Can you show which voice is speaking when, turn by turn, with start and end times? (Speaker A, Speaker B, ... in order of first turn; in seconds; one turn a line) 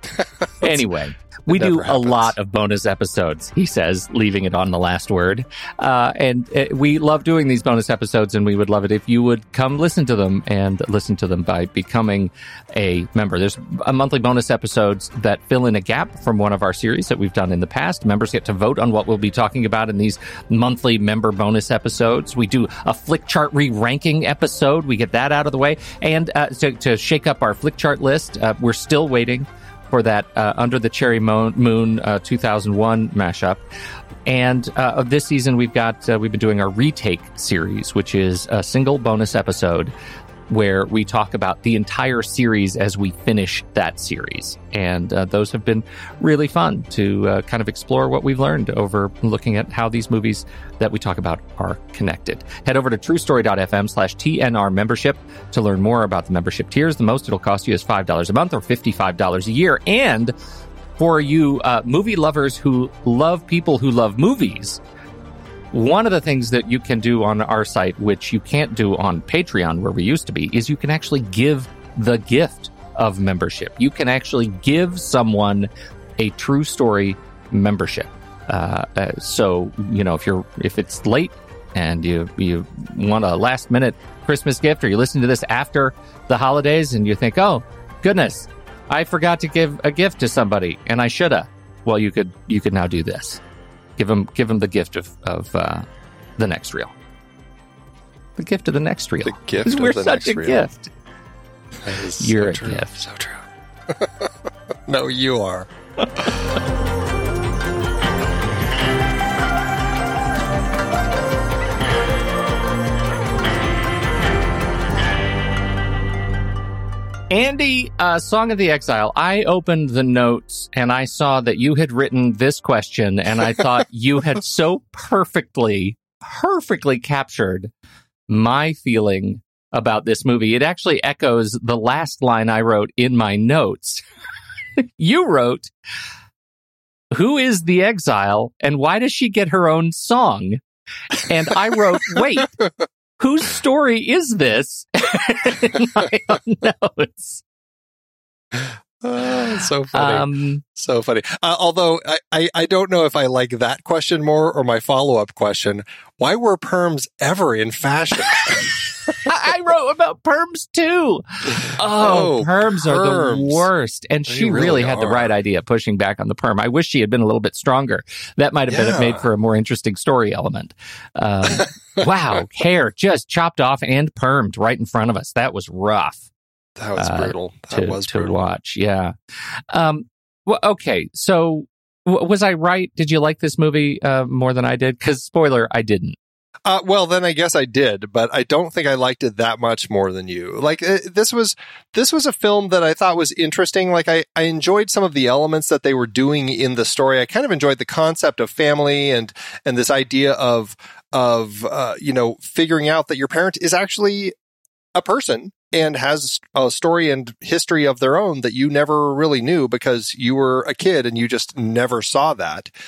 Speaker A: 0.6-33.6
Speaker B: 1.5-2.3
Speaker A: 34.3-39.9
Speaker A: 40.5-60.3
Speaker A: 61.0-64.8
Speaker A: 65.7-93.4
Speaker A: 94.0-95.9
Speaker A: 96.4-96.9
Speaker A: 98.4-100.9
Speaker B: 99.2-100.7
Speaker B: 101.8-104.3
Speaker A: 102.2-103.1
Speaker B: 104.9-106.5
Speaker A: 117.3-127.7
Speaker A: 128.3-134.0
Speaker A: 134.8-135.7
Speaker A: 137.1-142.6
Speaker A: 143.2-147.4
Speaker B: 148.6-159.2
Speaker A: 149.9-150.6
Speaker A: 159.2-176.3
Speaker B: 161.5-163.7
Speaker B: 164.3-165.3
Speaker B: 168.7-169.2
Speaker B: 176.8-178.4
Speaker A: 177.0-179.1
Speaker A: 179.7-186.2
Speaker B: 186.7-204.3
Speaker B: 204.9-212.7